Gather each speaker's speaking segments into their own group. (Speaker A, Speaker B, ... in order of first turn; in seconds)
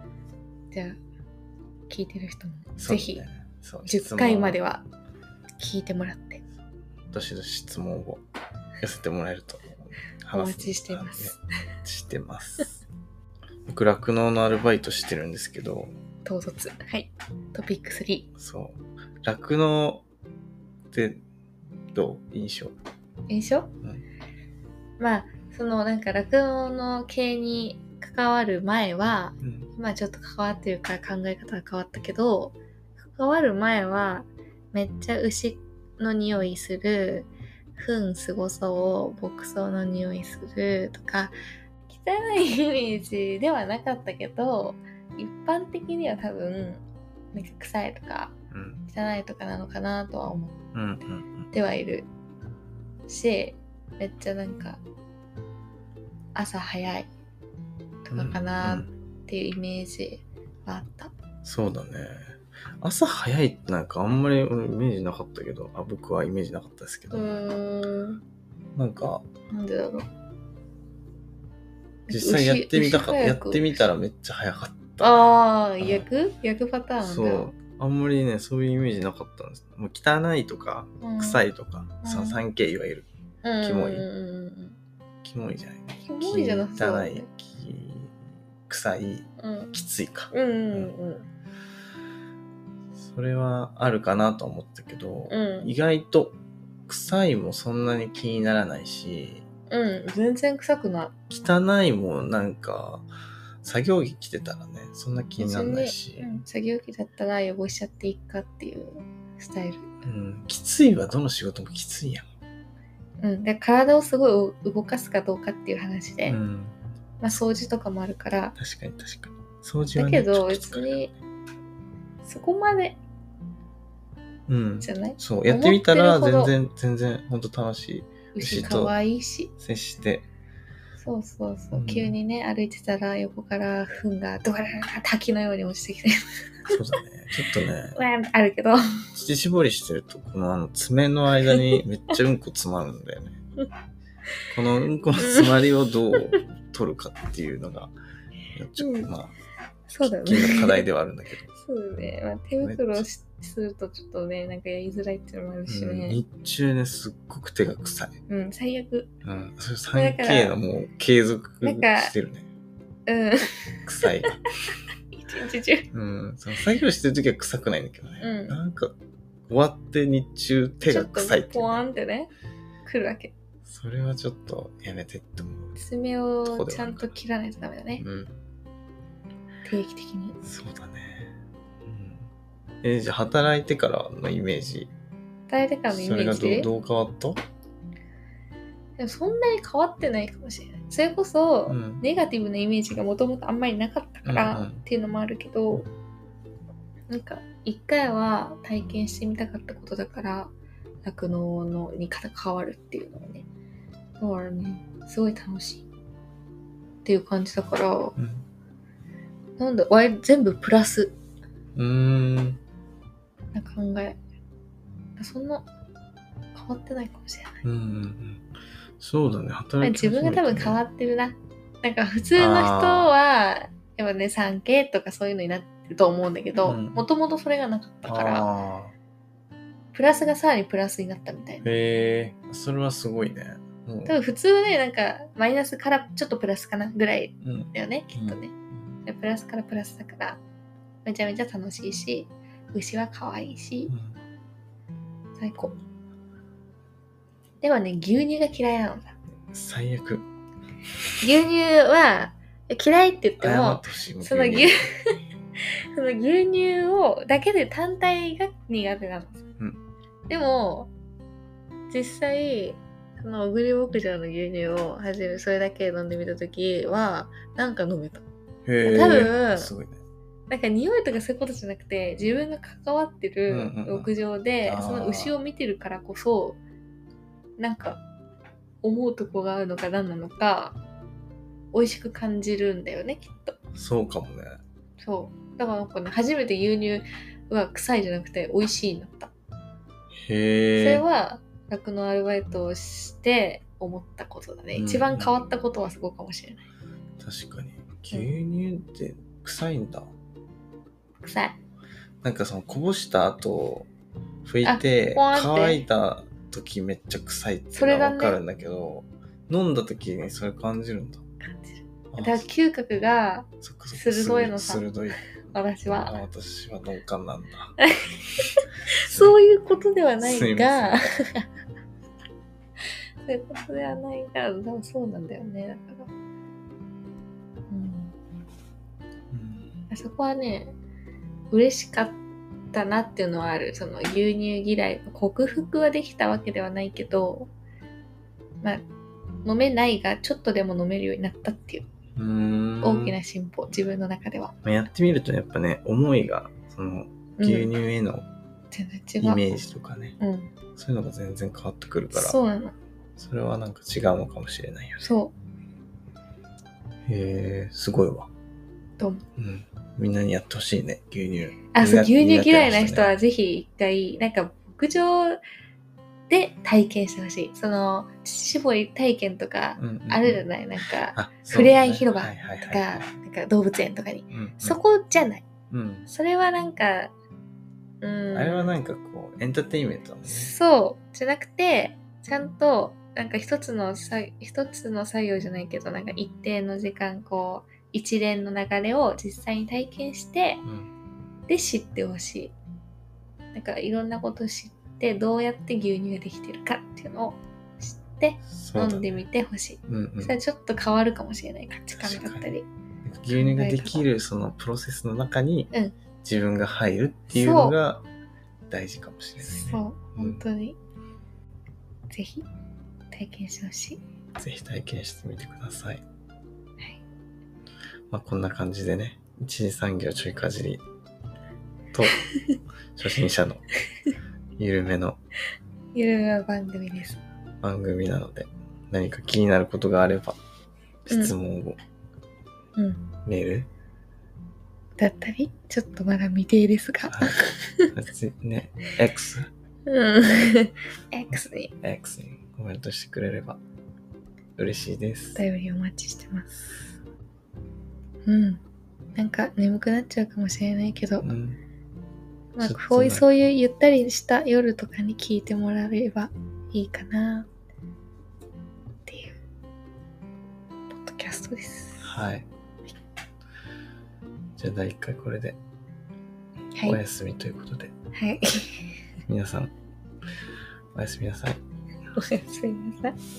Speaker A: 0.7-1.0, 1.9-3.2, 3.8-4.8, 5.6-6.4, 10.3-11.4, 16.2-18.3, 23.3-23.7, 25.0-41.3, 41.9-46.8, 47.3-48.3, 48.9-50.6, 51.5-52.1, 53.1-54.8, 56.3-57.1, 58.0-61.1, 67.1-68.2, 69.5-70.0, 72.1-73.7, 75.0-77.5, 81.0-81.5, 82.0-82.4, 83.4-84.8, 86.0-87.3, 89.4-89.7, 90.3-91.3, 95.3-95.7, 99.7-101.1, 105.4-110.0, 113.2-116.4, 117.2-118.5, 119.9-121.1, 122.2-123.0, 124.8-126.5, 128.3-129.5, 131.0-136.7, 137.9-138.8, 141.5-141.8, 145.2-145.5, 148.8-149.1, 149.9-150.8, 151.5-156.2, 158.3-159.1, 159.9-160.6, 161.6-162.1, 163.1-164.5, 165.1-165.9, 168.2-168.6, 170.8-172.3, 172.8-173.3, 175.8-178.0, 179.6-180.4, 185.5-186.7, 189.0-195.9, 197.1-200.5, 201.0-203.4, 204.2-205.9, 207.0-208.2, 209.6-211.1, 213.5-214.2, 215.2-215.7, 216.5-217.6, 219.8-228.5, 229.9-231.7, 234.1-238.5, 239.1-240.4, 241.0-243.9, 245.4-245.8, 247.6-249.2, 251.2-255.2, 255.9-259.4, 260.3-260.9, 261.9-268.2, 268.8-269.7, 270.5-276.6, 277.6-278.0, 278.8-280.8, 281.7-283.6, 285.0-289.3, 290.8-296.6, 301.2-301.6, 304.6-305.8, 307.7-308.4, 311.4-314.8, 315.5-316.1, 317.8-321.5, 323.2-326.1, 327.7-328.1, 329.9-330.7, 331.5-332.2, 332.7-337.5, 339.4-341.8, 342.8-344.6, 347.4-347.7, 348.7-349.4, 350.2-350.5, 352.1-352.7, 355.0-355.3, 361.7-365.4, 366.3-375.4, 376.1-377.1, 378.0-378.7, 380.3-390.6, 391.5-392.5, 393.5-402.7, 403.3-404.1, 407.3-407.8, 409.4-410.8, 412.1-412.5, 413.1-414.0, 422.3-422.6, 425.9-427.2, 432.8-433.1, 435.0-437.9, 439.9-441.7, 445.4-446.6, 448.2-448.6, 449.1-451.3, 452.5-457.5, 459.1-459.4, 460.9-462.1, 468.1-469.0, 472.1-473.1
Speaker B: 2.8-4.6, 7.1-8.2, 8.8-12.8, 13.7-15.9, 18.4-20.0, 20.9-21.2, 21.9-22.7, 29.4-29.7, 48.5-48.8, 50.7-51.5, 58.1-58.9, 61.4-67.3, 68.8-69.2, 72.1-75.2, 75.8-76.0, 77.0-83.1, 83.6-84.1, 85.2-90.9, 93.0-99.4, 101.3-103.0, 103.6-106.3, 110.0-112.2, 116.2-116.7, 118.6-121.1, 124.5-128.9, 129.6-130.3, 131.7-132.1, 136.7-138.0, 139.1-143.4, 144.5-147.9, 148.5-149.3, 150.0-151.4, 152.6-153.1, 155.7-158.1, 159.2-162.5, 163.8-164.4, 165.9-168.9, 169.5-171.8, 173.6-175.8, 176.4-177.1, 178.0-178.3, 180.4-181.3, 181.8-182.3, 182.8-184.9, 185.9-187.4, 191.7-192.0, 194.2-194.8, 208.2-208.4, 211.8-212.6, 217.6-218.5, 219.0-220.8, 222.3-223.1, 226.6-227.0, 228.1-228.9, 231.6-234.2, 237.4-238.4, 243.9-244.2, 249.5-250.2, 253.4-254.8, 268.6-270.0, 273.5-274.1, 274.6-275.4, 283.7-284.6, 290.2-291.0, 294.7-295.3, 297.2-300.1, 302.2-303.9, 304.4-311.2, 312.1-312.4, 313.6-317.8, 319.0-319.4, 320.2-321.1, 329.3-329.7, 342.1-343.1, 344.6-348.3, 349.2-350.2, 350.8-352.4, 353.2-355.1, 357.1-358.3, 359.4-363.2, 369.8-370.4, 371.1-373.1, 374.3-374.8, 375.7-376.1, 378.3-380.5, 390.6-390.9, 398.5-399.2, 399.9-400.4, 401.9-402.5, 403.0-405.7, 406.2-408.0, 408.7-410.4, 414.4-416.0, 418.1-420.8, 421.9-422.2, 422.9-423.6, 424.6-425.2, 427.6-430.4, 431.1-431.8, 433.2-433.7, 437.1-437.3, 437.9-439.5, 441.8-443.6, 444.6-445.4, 451.2-451.6, 452.6-453.2, 462.0-462.5, 464.6-465.6, 466.8-467.9, 469.3-469.7, 470.9-471.6